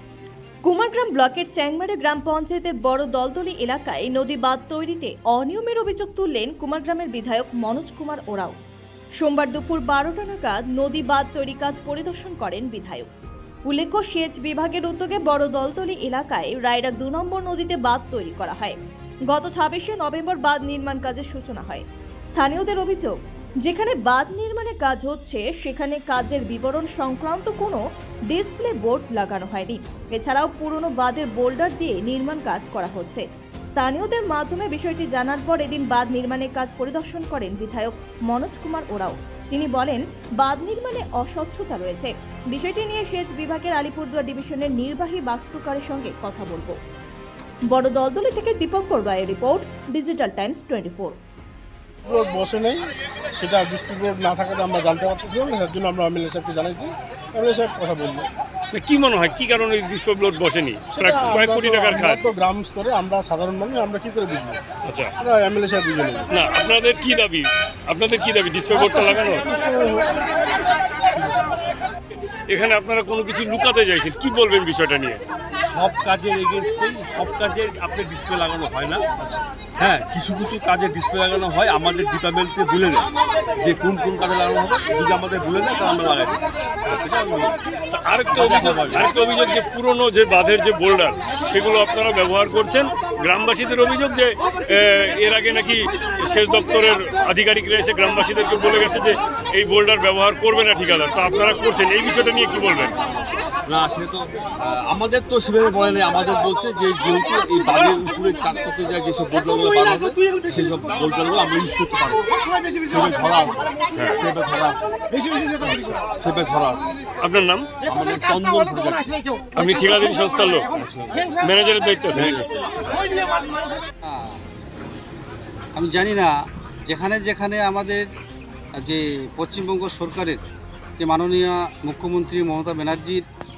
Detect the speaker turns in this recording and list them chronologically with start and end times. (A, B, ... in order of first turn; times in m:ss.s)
0:00.6-0:08.6 A
0:09.2-0:13.1 A
0:13.7-0:18.8 A
0:19.3-0:46.8 A
0:47.7-0:51.2 A
0:52.0-0:58.3 B
0:58.7-1:02.3 C
1:00.9-1:04.6 B
1:04.8-1:05.1 C
1:05.2-1:06.3 B
1:06.3-1:09.4 C
1:08.7-1:10.2 B
1:11.1-1:11.5 B
1:12.5-1:15.2 C
1:15.8-1:18.9 D
1:18.9-1:19.4 B
1:20.0-1:23.0 D
1:23.7-1:26.4 D
1:26.9-1:27.3 C
1:27.9-1:42.9 C
1:28.3-1:29.0 D
1:43.6-1:52.3 D
1:52.9-1:54.8 D
1:53.9-1:54.2 C
1:55.6-1:55.9 C
1:55.7-1:56.9 D
1:57.2-1:57.8 C
1:57.8-1:59.2 D
1:59.6-2:02.5 C
2:00.9-2:01.3 D
2:04.0-2:04.4 E
2:05.8-2:06.3 E
2:06.8-2:08.0 E
2:08.8-2:10.4 E
2:11.0-2:13.2 E